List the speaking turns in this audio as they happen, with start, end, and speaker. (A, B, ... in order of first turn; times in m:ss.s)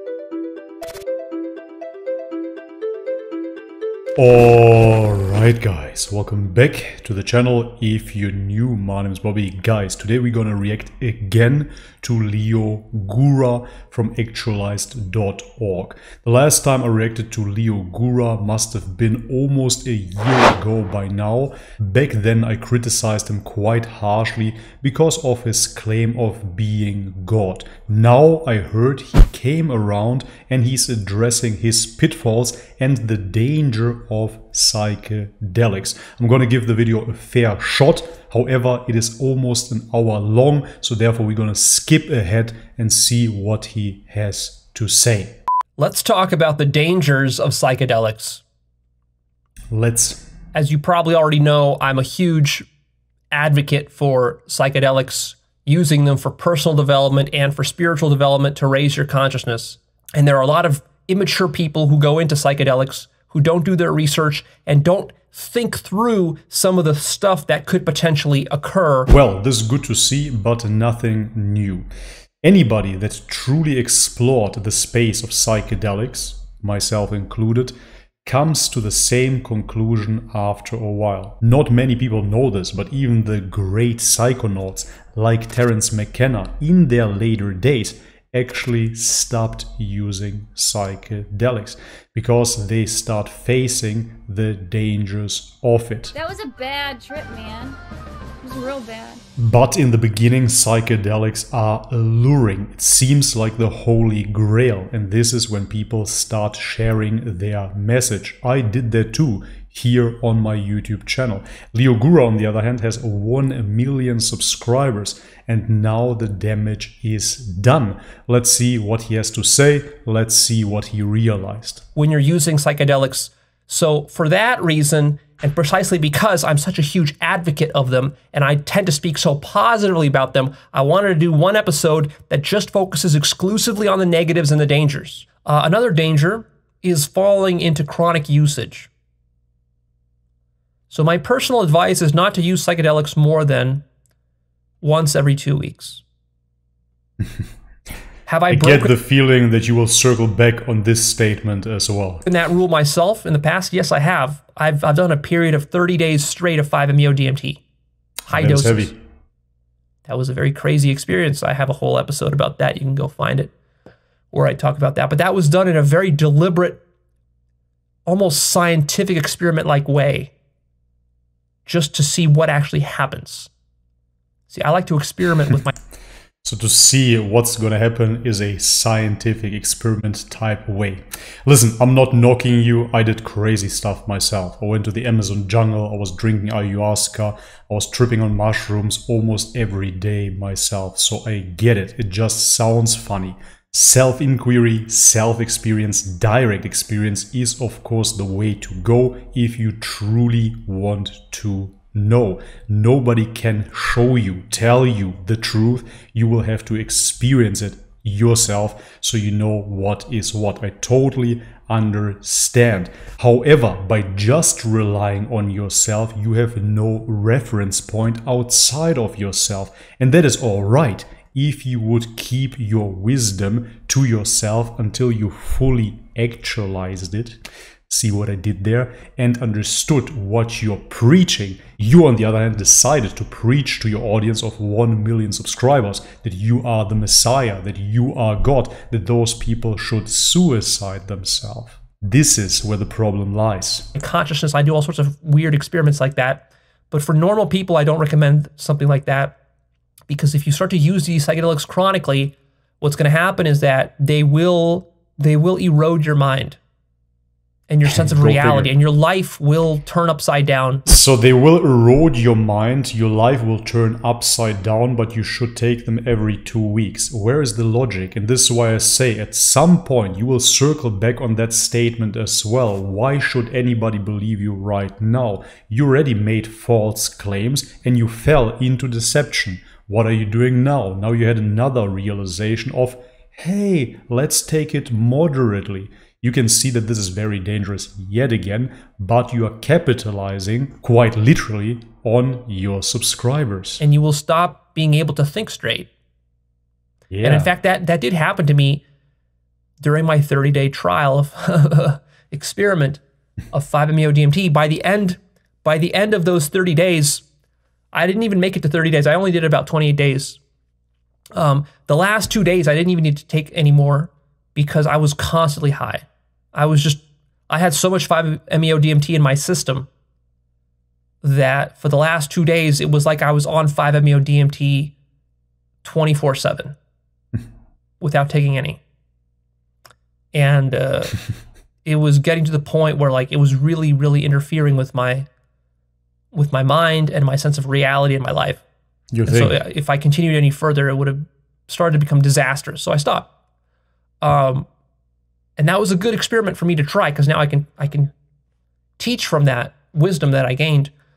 0:04.2-0:45.4 A
0:45.8-0:48.4 B
0:49.7-0:50.3 A
0:50.5-0:52.7 B
0:53.3-1:09.1 B
1:09.1-1:11.9 A
1:12.4-1:17.7 A
1:18.2-1:36.2 A
1:36.2-1:37.8 C
1:38.4-1:39.2 C
1:39.4-2:01.9 A
2:02.0-2:18.9 B
2:20.9-2:23.8 B
2:24.8-2:26.0 B
2:28.3-2:28.9 B
2:28.5-2:32.2 A
2:32.2-2:37.6 B
2:38.3-2:38.9 B
2:38.3-2:39.0 A
2:40.1-2:43.5 B
2:44.3-2:46.8 B
2:48.1-2:50.3 B
2:51.7-2:53.5 B
2:54.5-2:55.7 B
2:56.4-4:03.9 A
4:04.0-4:09.4 B
4:10.1-4:16.6 B
4:17.7-4:20.8 B
4:17.8-4:18.8 A
4:20.9-4:53.8 A
4:53.8-4:55.9 B
4:57.1-4:57.5 A
4:57.2-4:58.8 B
4:59.8-5:03.0 B
5:03.5-5:07.2 B
5:07.9-5:10.4 B
5:11.4-5:19.9 B
5:21.2-5:24.9 B
5:25.8-5:26.8 B
5:28.0-5:28.8 B
5:30.3-5:31.2 B
5:31.8-5:35.3 B
5:36.3-5:38.6 B
5:39.1-5:39.6 A
5:39.3-5:43.3 B
5:44.2-5:44.7 B
5:45.6-5:48.1 B
5:49.0-5:50.9 B